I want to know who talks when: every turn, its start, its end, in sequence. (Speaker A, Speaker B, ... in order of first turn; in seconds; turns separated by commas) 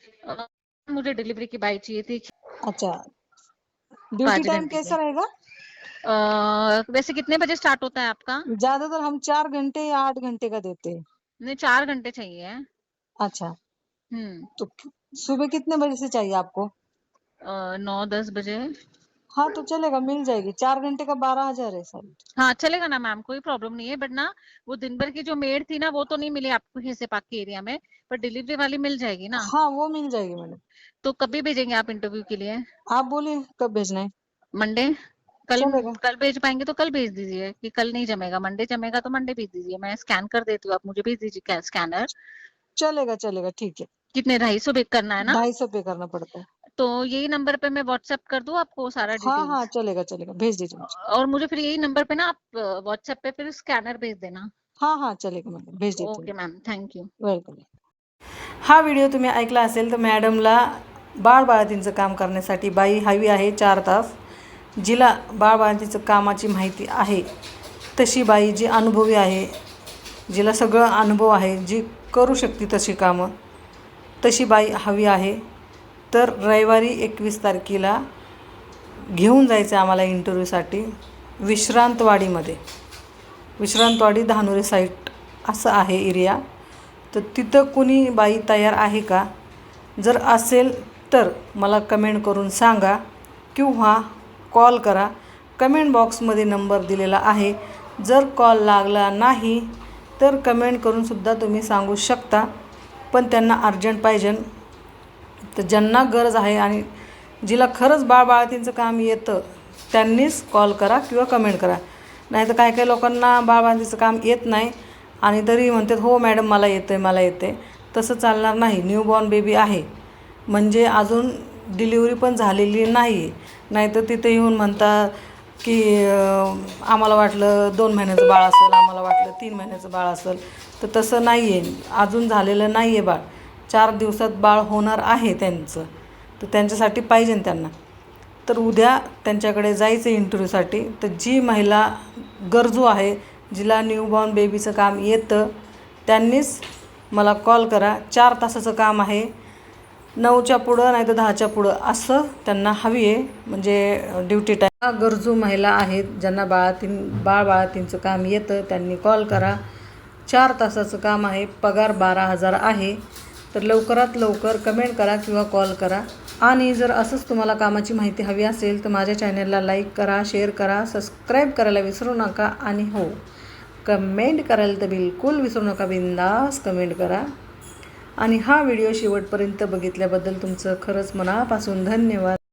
Speaker A: 0.2-2.3, Speaker B: 2.6-3.0, Speaker B: 4.1-5.2, Speaker A: 4.2-5.0, Speaker A: 6.1-8.4, Speaker B: 8.5-11.0, Speaker A: 11.4-12.6, Speaker B: 13.2-13.5, Speaker A: 14.1-14.5, Speaker B: 14.6-16.7, Speaker A: 17.4-18.6, Speaker B: 19.3-22.2, Speaker A: 22.4-29.5, Speaker B: 29.4-30.6, Speaker A: 31.0-32.6, Speaker B: 32.9-34.1, Speaker A: 34.6-34.9, Speaker A: 35.5-42.1, Speaker B: 35.6-36.0, Speaker B: 42.8-43.9, Speaker A: 44.1-45.4, Speaker B: 45.2-46.5, Speaker A: 46.8-49.7, Speaker B: 49.2-50.9, Speaker A: 50.8-54.5, Speaker B: 54.8-56.3, Speaker A: 56.0-57.1, Speaker B: 57.2-57.6, Speaker C: 58.6-64.2, Speaker C: 64.8-67.2, Speaker C: 68.0-69.5, Speaker C: 70.3-73.3, Speaker C: 74.2-75.4, Speaker C: 76.1-78.0, Speaker C: 79.1-80.9, Speaker C: 81.4-82.6, Speaker C: 83.6-86.4, Speaker C: 87.1-89.3, Speaker C: 90.0-93.0, Speaker C: 93.5-102.5, Speaker C: 103.1-104.4, Speaker C: 105.5-106.8, Speaker C: 107.4-119.8, Speaker C: 120.5-135.9, Speaker C: 136.4-137.7, Speaker C: 138.4-145.5, Speaker C: 146.1-149.3, Speaker C: 150.2-159.6, Speaker C: 160.3-163.0, Speaker C: 163.5-173.2, Speaker C: 173.8-177.2, Speaker C: 178.2-182.4